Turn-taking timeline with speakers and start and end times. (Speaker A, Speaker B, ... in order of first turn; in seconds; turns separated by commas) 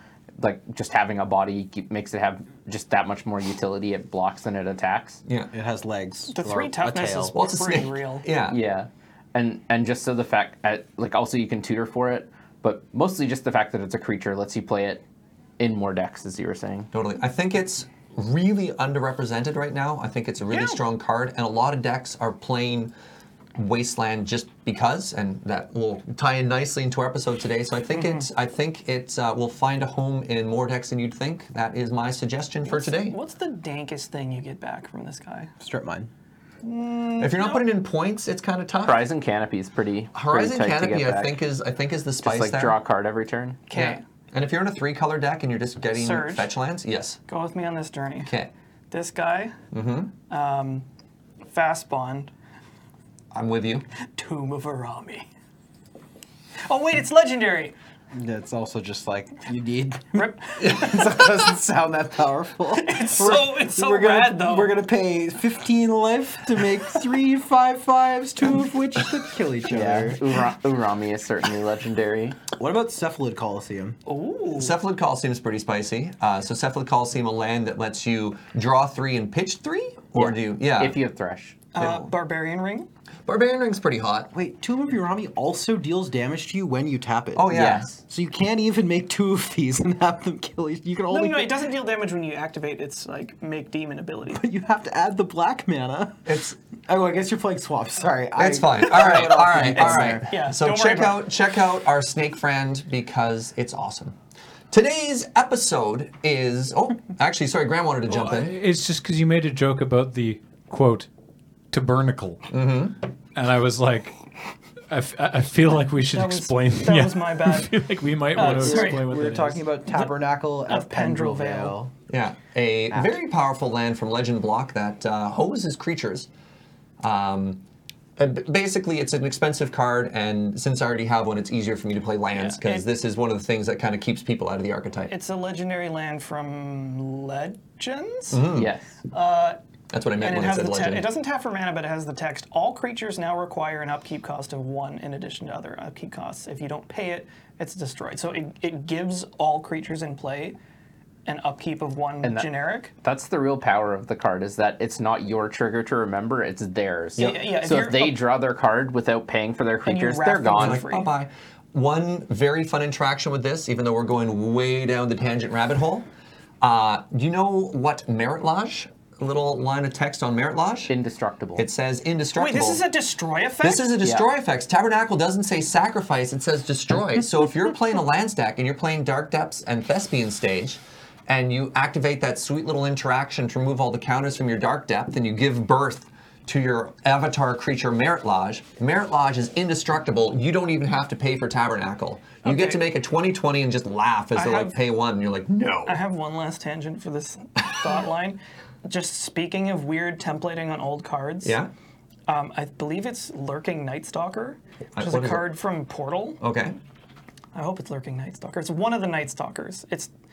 Speaker A: 0.4-5.2, Speaker B: 5.3-5.5, Speaker C: 5.5-7.3, Speaker D: 6.3-8.3, Speaker B: 7.3-8.6, Speaker A: 8.5-15.0, Speaker A: 15.6-16.9, Speaker B: 16.9-22.9, Speaker D: 20.5-20.8, Speaker B: 23.6-33.2, Speaker D: 27.9-28.2, Speaker D: 32.6-35.5, Speaker C: 35.6-36.1, Speaker D: 36.6-37.6, Speaker B: 37.2-39.1, Speaker A: 38.9-41.4, Speaker B: 40.1-42.8, Speaker A: 42.2-43.6, Speaker D: 43.7-44.0, Speaker B: 43.7-47.2, Speaker D: 45.9-46.5, Speaker D: 47.3-48.3, Speaker B: 48.2-48.5, Speaker D: 48.9-49.5, Speaker B: 49.7-50.1, Speaker D: 50.3-50.9, Speaker D: 51.5-52.3, Speaker B: 53.3-53.9, Speaker D: 54.1-55.3, Speaker D: 56.7-57.8, Speaker C: 58.1-70.2, Speaker D: 60.1-61.2, Speaker D: 62.7-64.8, Speaker A: 69.7-72.4, Speaker C: 72.5-74.0, Speaker D: 74.1-74.8, Speaker B: 74.5-81.0, Speaker A: 80.2-81.6, Speaker D: 81.7-82.9, Speaker B: 81.8-82.1, Speaker B: 83.3-84.3, Speaker C: 84.3-91.7, Speaker B: 87.3-87.9, Speaker A: 87.5-88.0, Speaker D: 91.1-94.4, Speaker C: 94.3-96.3, Speaker B: 96.3-96.6, Speaker C: 96.9-100.3, Speaker B: 98.4-104.2, Speaker D: 99.9-101.2, Speaker B: 104.7-108.6, Speaker E: 108.1-111.1, Speaker E: 111.7-112.5, Speaker B: 112.5-113.0, Speaker E: 113.3-114.2, Speaker E: 114.9-119.6, Speaker D: 116.1-119.0, Speaker C: 118.4-121.9, Speaker D: 120.7-121.8, Speaker B: 122.1-126.3, Speaker B: 127.0-127.6, Speaker B: 128.2-135.1, Speaker D: 132.3-132.9, Speaker D: 135.1-138.4, Speaker B: 138.3-138.7, Speaker A: 138.5-139.0, Speaker D: 139.1-139.6, Speaker B: 139.9-141.1, Speaker D: 140.2-150.6, Speaker D: 151.3-152.9, Speaker A: 152.2-152.5, Speaker A: 153.0-160.8, Speaker D: 157.2-158.2, Speaker D: 159.9-161.1, Speaker B: 160.6-166.1, Speaker B: 166.6-170.9, Speaker A: 170.9-171.7, Speaker B: 171.6-172.8, Speaker D: 172.4-174.0, Speaker B: 173.6-196.0, Speaker D: 192.4-192.8, Speaker D: 194.3-194.8, Speaker D: 195.9-201.6, Speaker B: 201.4-201.7, Speaker D: 202.3-206.4, Speaker B: 204.9-205.5, Speaker B: 206.4-206.8, Speaker D: 207.5-210.1